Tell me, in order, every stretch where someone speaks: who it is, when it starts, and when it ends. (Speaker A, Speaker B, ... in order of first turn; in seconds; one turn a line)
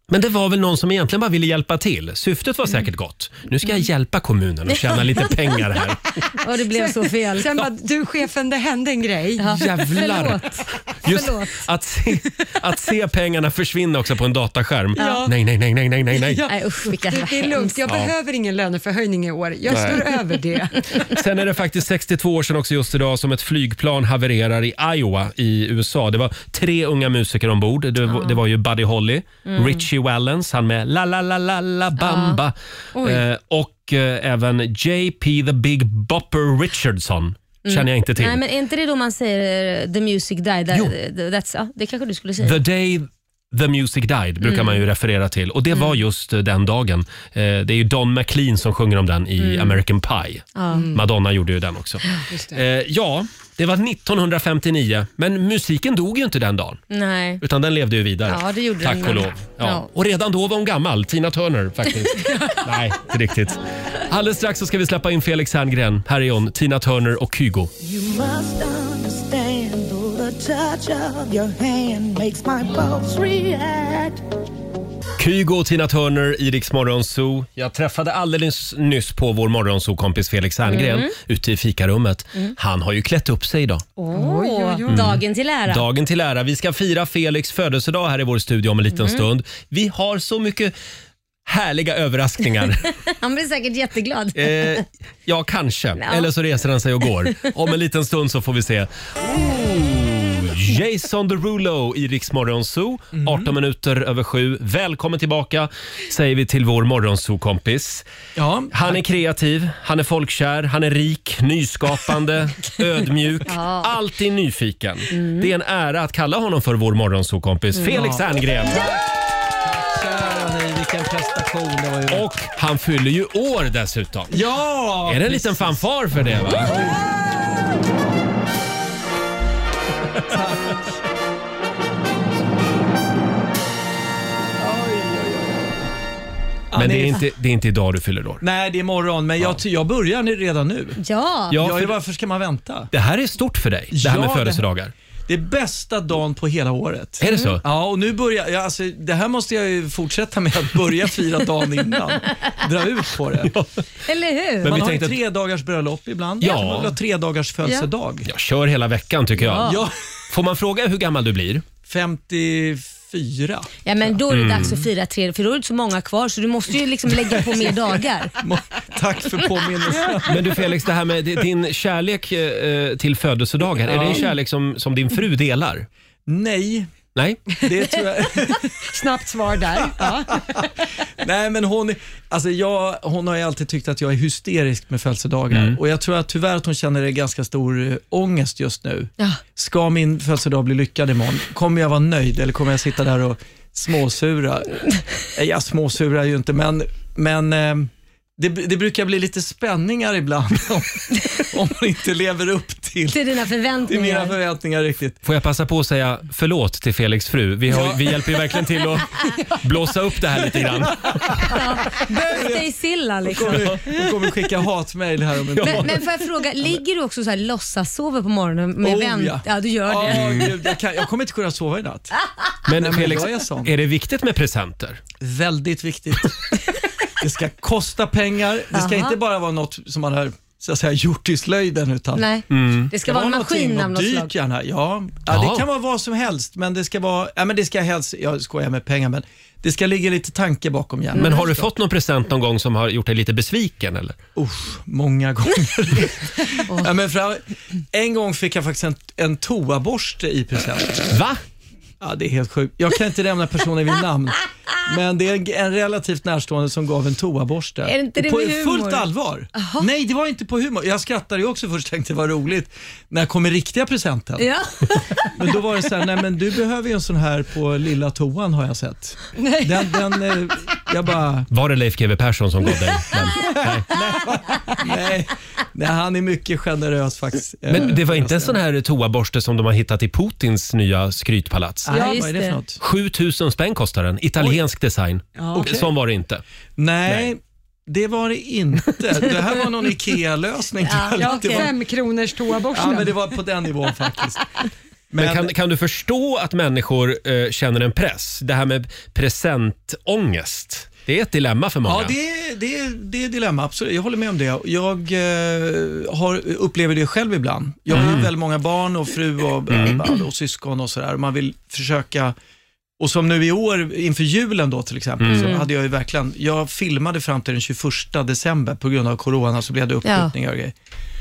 Speaker A: 0.1-6.0
Speaker B: 4.7-5.5
Speaker B: 6.3-7.7
Speaker C: 6.7-9.7
Speaker B: 9.4-11.6
Speaker D: 9.5-10.4
Speaker A: 11.0-16.5
Speaker C: 15.0-15.3
Speaker B: 15.0-15.2
Speaker C: 16.2-21.1
Speaker B: 16.4-17.8
Speaker A: 17.9-18.1
Speaker A: 19.7-20.1
Speaker A: 21.1-38.4
Speaker B: 28.1-28.4
Speaker B: 29.4-29.8
Speaker B: 32.0-32.4
Speaker B: 37.6-42.6
Speaker A: 42.4-56.8
Speaker B: 44.4-44.8
Speaker B: 49.4-49.8
Speaker B: 50.5-50.9
Speaker C: 50.7-51.0
Speaker C: 52.3-52.6
Speaker B: 56.9-57.4
Speaker A: 57.4-67.7
Speaker B: 58.3-59.9
Speaker E: 67.8-74.2
Speaker A: 75.2-83.8
Speaker B: 80.7-81.1
Speaker B: 84.0-85.8
Speaker C: 84.1-85.0
Speaker A: 84.9-90.7
Speaker B: 88.9-89.2
Speaker A: 91.5-92.9
Speaker B: 93.2-94.8
Speaker A: 94.3-108.0
Speaker B: 96.0-96.3
Speaker D: 103.1-103.5
Speaker D: 108.3-109.0
Speaker A: 108.7-118.8
Speaker B: 113.5-113.9
Speaker B: 115.1-115.5
Speaker D: 117.9-119.1
Speaker D: 119.6-122.3
Speaker A: 122.1-124.4
Speaker D: 124.3-125.8
Speaker A: 125.0-126.8
Speaker D: 126.4-127.1
Speaker D: 130.3-131.0
Speaker D: 134.6-135.7
Speaker D: 136.7-137.2
Speaker A: 136.7-138.4
Speaker D: 138.4-141.0
Speaker B: 141.0-141.6
Speaker A: 141.5-141.9
Speaker D: 141.5-142.9
Speaker A: 142.9-144.9
Speaker D: 143.9-144.6
Speaker D: 145.3-153.5
Speaker A: 147.2-147.6
Speaker B: 147.2-147.6
Speaker A: 153.4-153.7
Speaker B: 154.1-154.8
Speaker A: 154.6-155.2
Speaker D: 154.6-158.3
Speaker A: 156.4-156.9
Speaker A: 158.2-159.7
Speaker B: 159.5-159.8
Speaker D: 159.5-159.9
Speaker A: 160.3-161.7
Speaker D: 161.8-163.7
Speaker B: 163.8-168.3
Speaker A: 164.3-164.8
Speaker D: 167.2-167.7
Speaker D: 168.4-170.7
Speaker A: 170.3-175.9
Speaker D: 173.8-174.3
Speaker D: 176.2-176.9
Speaker A: 177.1-177.4
Speaker D: 177.6-178.8
Speaker C: 178.8-180.4
Speaker D: 180.0-180.4
Speaker D: 181.2-203.3
Speaker A: 185.5-185.8
Speaker B: 203.1-204.4
Speaker D: 203.8-205.2
Speaker A: 205.2-211.4
Speaker D: 207.7-208.9
Speaker D: 210.4-212.7
Speaker B: 211.5-213.8
Speaker D: 213.2-216.0
Speaker A: 213.5-213.8
Speaker A: 215.6-215.9
Speaker B: 215.6-220.5
Speaker D: 218.8-222.2
Speaker A: 220.1-220.4
Speaker A: 222.7-225.0
Speaker D: 222.7-223.7
Speaker D: 225.2-226.4
Speaker D: 227.2-232.3
Speaker B: 228.7-229.2
Speaker B: 232.1-234.3
Speaker A: 232.5-232.9
Speaker D: 232.9-241.7
Speaker A: 235.3-235.7
Speaker B: 241.1-241.4
Speaker A: 241.2-244.2
Speaker D: 244.3-251.1
Speaker A: 251.1-251.4
Speaker D: 252.0-264.5
Speaker B: 257.8-259.9
Speaker B: 264.4-265.2
Speaker D: 265.2-271.5
Speaker C: 269.4-270.0
Speaker A: 271.5-273.9
Speaker D: 273.4-278.6
Speaker A: 277.7-282.0
Speaker D: 281.9-282.8
Speaker B: 281.9-282.6
Speaker A: 282.8-286.4
Speaker C: 285.4-285.7
Speaker D: 285.5-285.9
Speaker D: 286.8-291.7
Speaker A: 287.1-287.3
Speaker B: 290.8-291.7
Speaker C: 291.2-293.4
Speaker D: 292.7-294.5
Speaker D: 295.1-295.5
Speaker A: 295.2-302.1
Speaker D: 301.8-312.3
Speaker A: 307.9-308.3
Speaker A: 309.7-310.1
Speaker D: 313.0-320.7
Speaker A: 315.2-315.6
Speaker B: 315.3-315.6
Speaker B: 320.0-320.3